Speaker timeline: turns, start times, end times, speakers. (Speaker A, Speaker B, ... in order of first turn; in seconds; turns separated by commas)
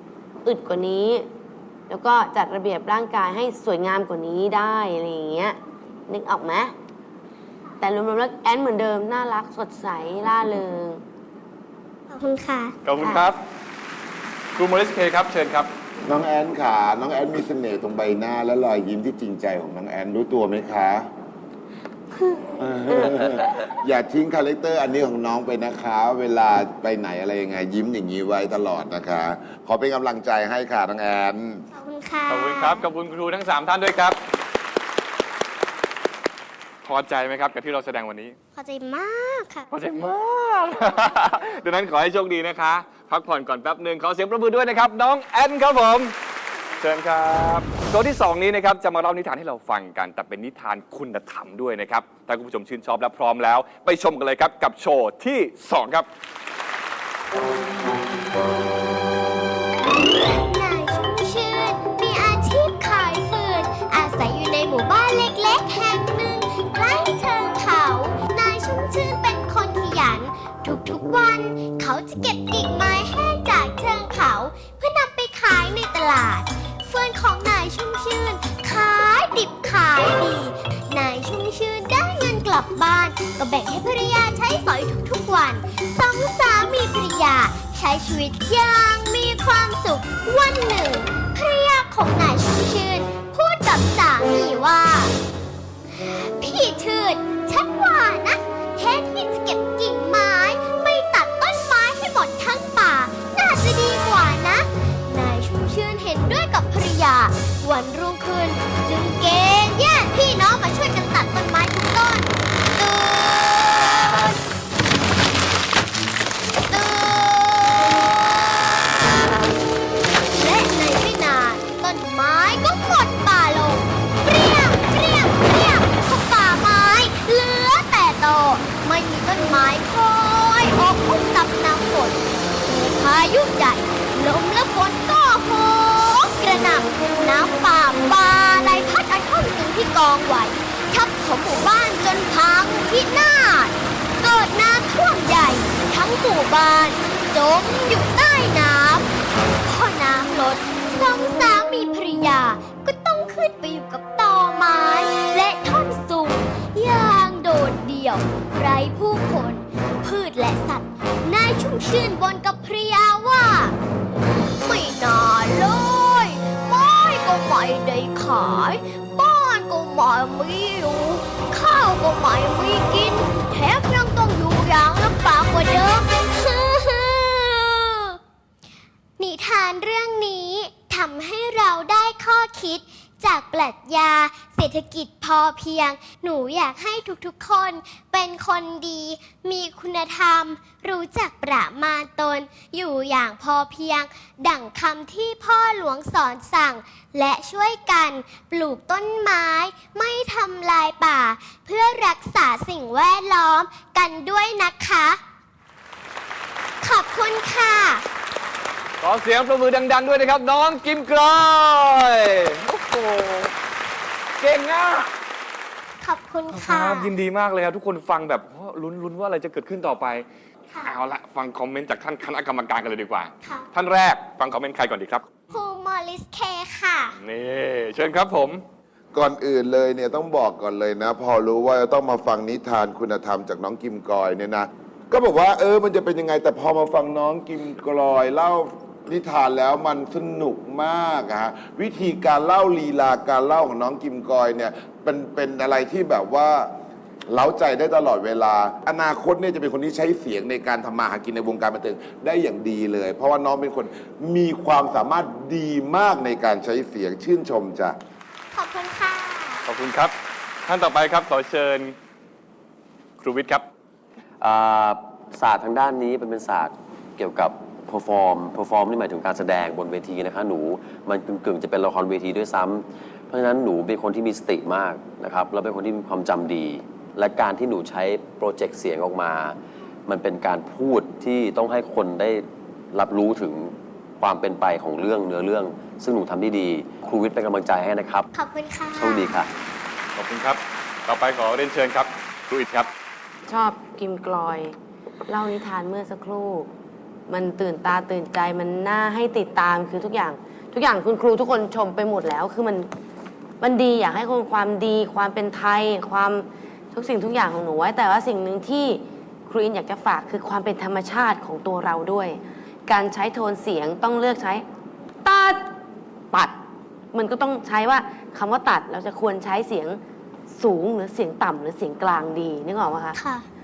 Speaker A: 0.4-1.3, Speaker A: 1.9-6.7, Speaker A: 7.8-11.0, Speaker B: 12.1-12.7, Speaker C: 12.8-13.4, Speaker A: 13.0-13.3, Speaker C: 14.6-15.7, Speaker D: 16.1-21.0, Speaker D: 22.6-31.6, Speaker B: 31.7-32.9, Speaker C: 32.3-34.2, Speaker C: 36.8-38.4, Speaker B: 38.5-39.6, Speaker C: 39.7-46.1, Speaker C: 46.8-56.1, Speaker B: 60.0-95.1, Speaker B: 95.9-114.4, Speaker B: 116.7-119.3, Speaker B: 120.2-149.1, Speaker B: 149.6-163.7, Speaker B: 164.6-178.2, Speaker B: 179.2-205.2, Speaker B: 206.8-208.0, Speaker C: 209.0-213.5, Speaker C: 214.4-215.1, Speaker B: 216.0-217.1, Speaker C: 216.5-220.2, Speaker C: 220.8-225.3, Speaker B: 225.5-227.2, Speaker C: 227.2-228.6, Speaker D: 229.1-246.7, Speaker D: 247.3-257.9, Speaker B: 258.5-259.6, Speaker C: 259.6-260.1, Speaker C: 260.6-261.9, Speaker C: 263.2-263.6, Speaker E: 264.4-288.2, Speaker B: 288.3-289.4, Speaker E: 288.9-289.5, Speaker C: 290.1-292.9, Speaker A: 293.5-294.7, Speaker A: 295.3-296.7, Speaker A: 297.3-302.9, Speaker A: 303.6-314.6, Speaker A: 315.2-315.7, Speaker A: 316.3-316.6, Speaker A: 317.1-320.0, Speaker A: 320.5-323.2, Speaker B: 323.1-323.4